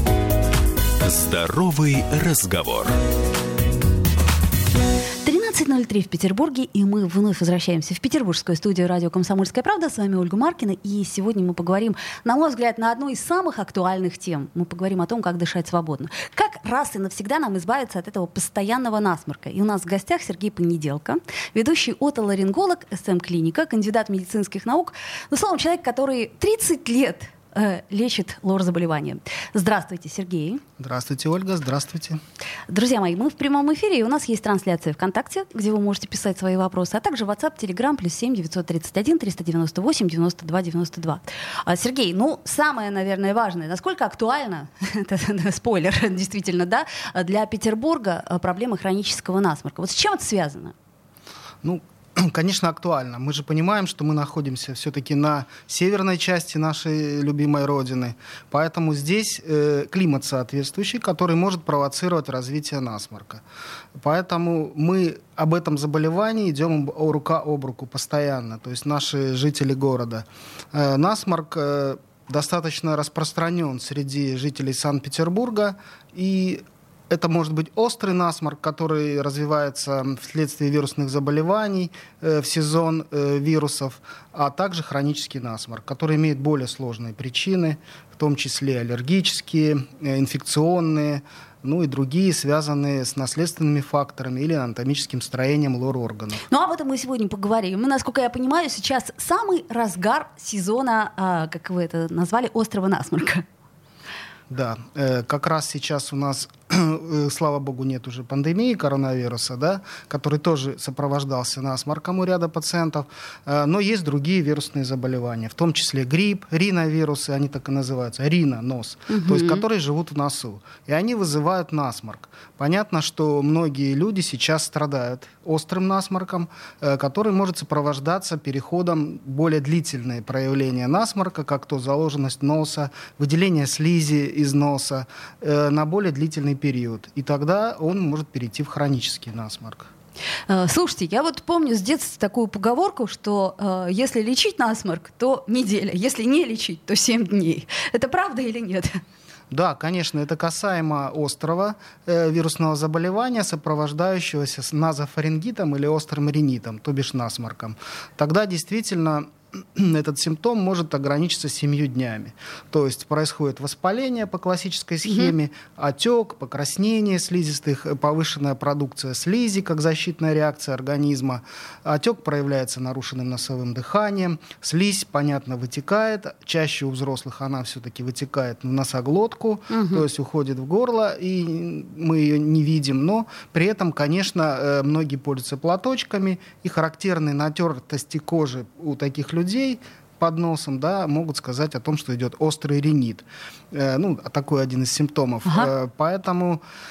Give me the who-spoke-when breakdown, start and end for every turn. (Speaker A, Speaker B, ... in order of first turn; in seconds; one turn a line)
Speaker A: 1.0-3.0
Speaker B: 5.2-30.6
Speaker C: 30.8-32.2
Speaker B: 32.7-50.7
Speaker C: 51.6-63.4
Speaker C: 64.0-96.4
Speaker B: 96.5-103.4
Speaker C: 104.5-139.9
Speaker B: 119.1-119.6
Speaker B: 140.5-149.0
Speaker C: 149.5-196.6
Speaker B: 179.7-180.0
Speaker B: 195.4-195.7